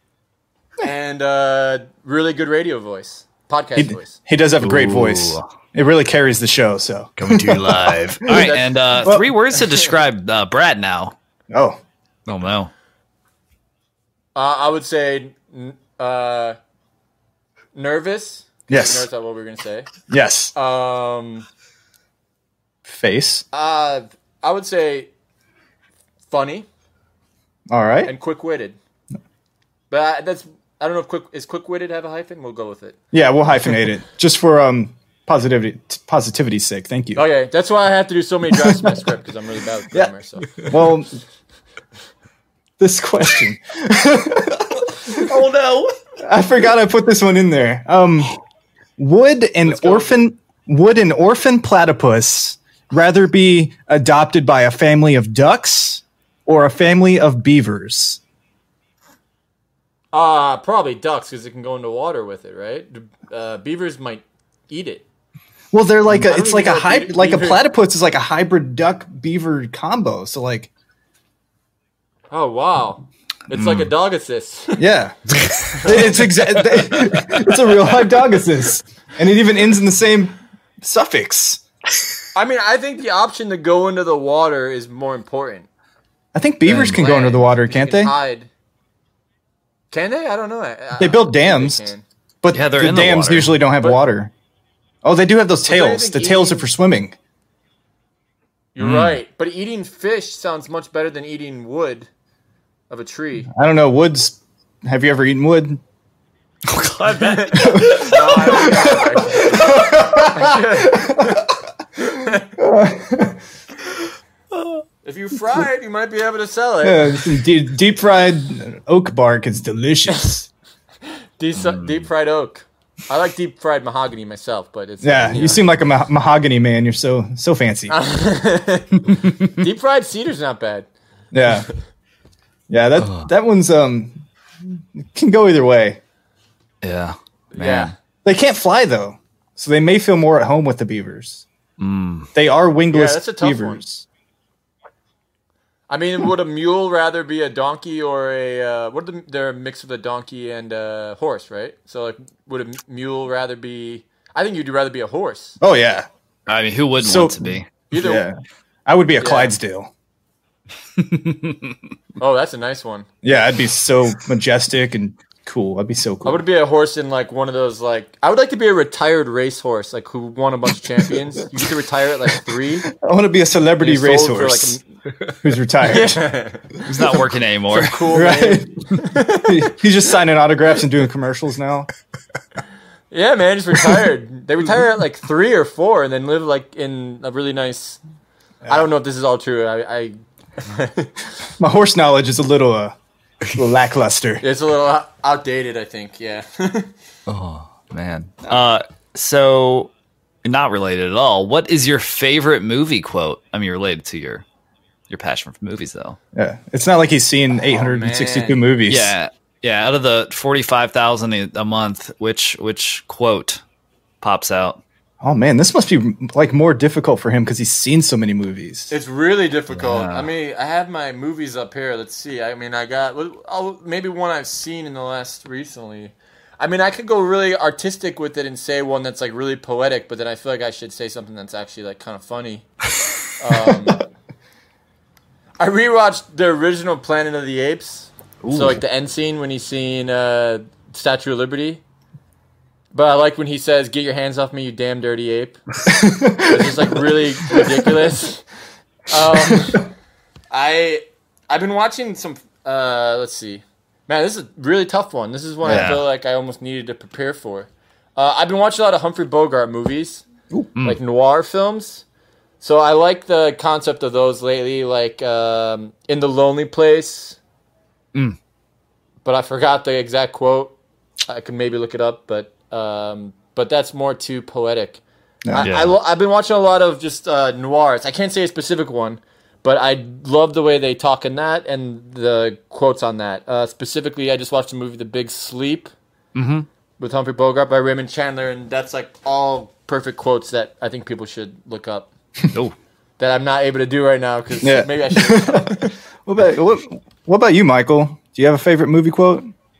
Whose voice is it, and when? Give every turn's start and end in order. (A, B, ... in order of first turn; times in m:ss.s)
0:00.8-0:04.2 A
0:03.8-0:08.5 B
0:04.6-0:05.4 C
0:07.2-0:11.2 C
0:08.3-0:09.0 A
0:11.5-0:11.8 B
0:12.3-0:12.7 C
0:14.4-0:16.6 A
0:17.8-0:19.9 A
0:18.7-0:19.1 B
0:20.1-0:20.5 B
0:20.6-0:21.4 A
0:22.9-0:23.4 B
0:23.5-0:25.1 A
0:26.3-0:26.7 A
0:27.7-0:28.1 B
0:28.1-0:28.8 A
0:29.9-0:33.0 A
0:33.1-0:37.2 B
0:37.2-0:40.7 A
0:38.5-0:39.0 B
0:40.6-0:41.2 B
0:42.8-0:44.8 B
0:45.1-0:46.0 C
0:46.2-0:48.4 B
0:49.0-0:58.2 B
0:49.6-0:50.2 A
1:00.1-1:05.1 A
1:05.7-1:10.7 B
1:06.1-1:07.6 A
1:12.3-1:14.8 A
1:13.5-1:13.9 C
1:14.8-1:15.2 B
1:15.4-1:18.0 C
1:15.8-1:21.6 B
1:15.8-1:16.2 A
1:22.4-1:25.7 A
1:26.3-1:28.1 B
1:26.7-1:27.0 C
1:27.0-1:28.5 A
1:29.9-1:32.0 A
1:31.0-1:31.9 B
1:32.4-1:34.3 B
1:32.5-1:33.6 C
1:35.0-1:37.2 B
1:35.6-1:36.7 A
1:38.8-1:42.1 A
1:38.8-1:39.2 C
1:42.9-1:43.5 A
1:43.5-1:45.8 B
1:46.7-1:48.8 C
1:47.1-1:52.5 A
1:47.6-1:51.4 B
1:52.6-1:53.4 B
1:55.0-1:57.2 A
1:56.8-2:00.5 B
2:01.4-2:05.6 A
2:01.6-2:02.1 C
2:05.0-2:08.0 B
2:07.9-2:10.9 A
2:11.3-2:11.7 B
2:11.5-2:11.7 A
2:12.7-2:16.0 B
2:13.0-2:13.3 C
2:16.8-2:17.9 C
2:17.5-2:17.9 A
2:18.2-2:21.4 B
2:21.8-2:22.3 C
2:22.3-2:24.1 B
2:22.9-2:23.8 A
2:25.9-2:35.6 A
2:35.6-2:36.1 B
2:36.5-2:37.7 C
2:37.0-2:38.4 B
2:37.9-2:38.3 A
2:38.9-2:39.9 B
2:39.2-2:39.6 A
2:41.0-2:41.6 C
2:42.2-2:43.1 A
2:43.2-2:46.4 B
2:46.2-2:52.9 A
2:52.8-2:54.8 B
2:53.8-2:54.8 A
2:55.4-2:56.4 B
2:55.8-2:56.8 A
2:56.8-2:58.0 C
2:57.7-2:59.7 A
2:58.0-3:01.9 B
3:03.1-3:08.0 A
3:08.6-3:11.2 A
3:11.6-3:13.0 B
3:13.6-3:14.4 B
3:14.4-3:16.9 A
3:17.3-3:19.9 C
3:20.4-3:24.4 C
3:25.1-3:26.2 C
3:26.4-3:29.2 B
3:27.5-3:28.6 A
3:28.9-3:33.6 C
3:34.2-3:34.8 C
3:35.2-3:38.9 B
3:38.9-3:52.6 A
3:39.7-3:40.3 C
3:53.4-3:54.0 A
3:55.6-4:01.8 A
3:58.4-3:58.8 C
4:02.9-4:05.6 A
4:05.9-4:06.9 B
4:06.4-4:08.4 A
4:07.5-4:07.9 B
4:09.1-4:09.9 A
4:10.5-4:20.3 A
4:15.6-4:16.0 B
4:15.6-4:16.0 C
4:20.8-4:22.0 A
4:22.6-4:27.4 A
4:29.2-4:30.8 A
4:31.3-4:45.9 A
4:35.4-4:35.8 B
4:35.6-4:35.9 C
4:46.4-4:46.7 C
4:47.0-4:52.1 A
4:53.2-4:56.0 A
4:54.6-4:59.4 B